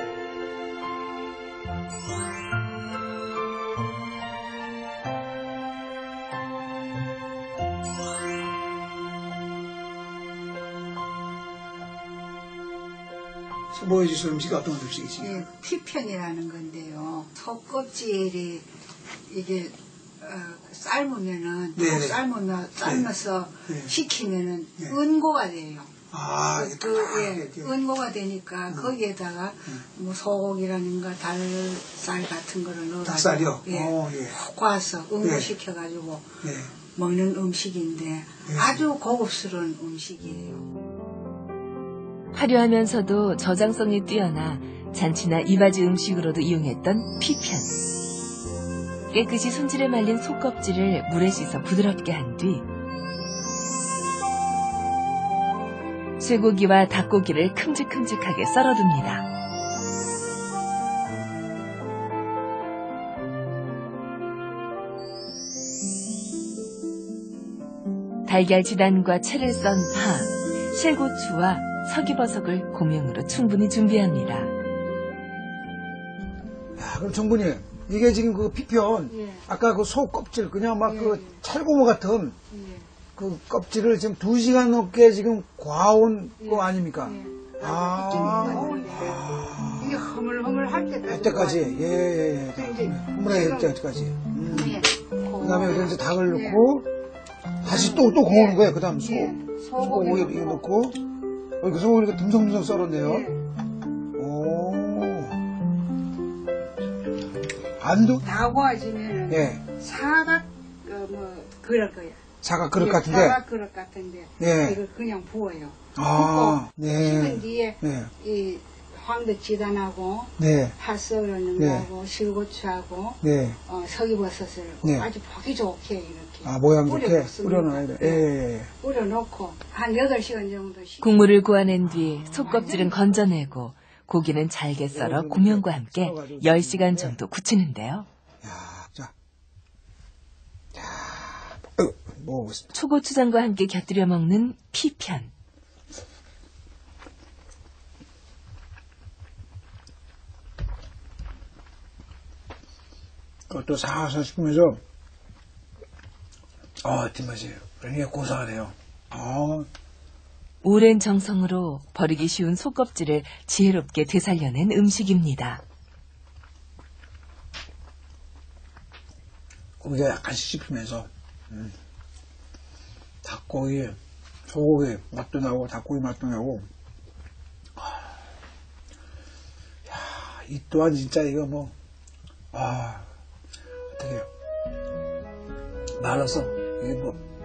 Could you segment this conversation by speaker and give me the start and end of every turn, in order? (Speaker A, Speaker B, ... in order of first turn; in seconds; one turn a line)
Speaker A: 13.7-15.5
Speaker B: 15.2-18.7
Speaker B: 19.3-25.9
Speaker A: 21.8-22.2
Speaker A: 22.8-23.1
Speaker A: 23.7-23.9
Speaker A: 26.1-27.7
Speaker B: 26.5-40.6
Speaker A: 28.7-28.9
Speaker A: 33.0-34.4
Speaker A: 35.2-35.5
Speaker A: 36.4-36.7
Speaker A: 38.5-38.8
Speaker C: 42.3-47.8
Speaker C: 49.1-52.7
Speaker C: 56.2-59.3
Speaker C: 68.3-74.5
Speaker A: 76.8-82.4
Speaker B: 79.1-79.5
Speaker B: 80.8-81.4
Speaker B: 82.5-82.9
Speaker A: 83.2-90.0
Speaker B: 86.4-91.8
Speaker A: 91.1-94.8
Speaker B: 92.5-93.8
Speaker B: 94.5-96.6
Speaker A: 95.4-96.9
Speaker A: 97.6-101.0
Speaker B: 97.6-100.6
Speaker A: 101.6-103.3
Speaker B: 103.0-103.4
Speaker A: 104.2-105.4
Speaker A: 107.8-108.2
Speaker B: 108.2-112.2
Speaker A: 109.3-109.6
Speaker A: 112.4-113.4
Speaker B: 112.8-131.3
Speaker A: 114.4-114.8
Speaker A: 116.0-118.1
Speaker A: 120.4-120.8
Speaker A: 121.6-121.9
Speaker A: 123.2-123.6
Speaker A: 124.8-125.1
Speaker A: 126.4-128.7
Speaker C: 131.0-138.1
Speaker A: 131.9-132.5
Speaker B: 132.4-133.3
Speaker A: 134.9-137.2
Speaker A: 138.4-139.1
Speaker A: 140.7-142.7
Speaker C: 142.7-145.3
Speaker A: 153.5-154.8
Speaker A: 156.8-159.7
Speaker C: 160.6-165.6
Speaker A: 169.8-171.8
Speaker A: 173.2-174.0
Speaker A: 174.5-176.7
Speaker A: 179.9-181.7
Speaker A: 182.5-183.1
Speaker A: 183.9-184.3
Speaker A: 186.0-187.2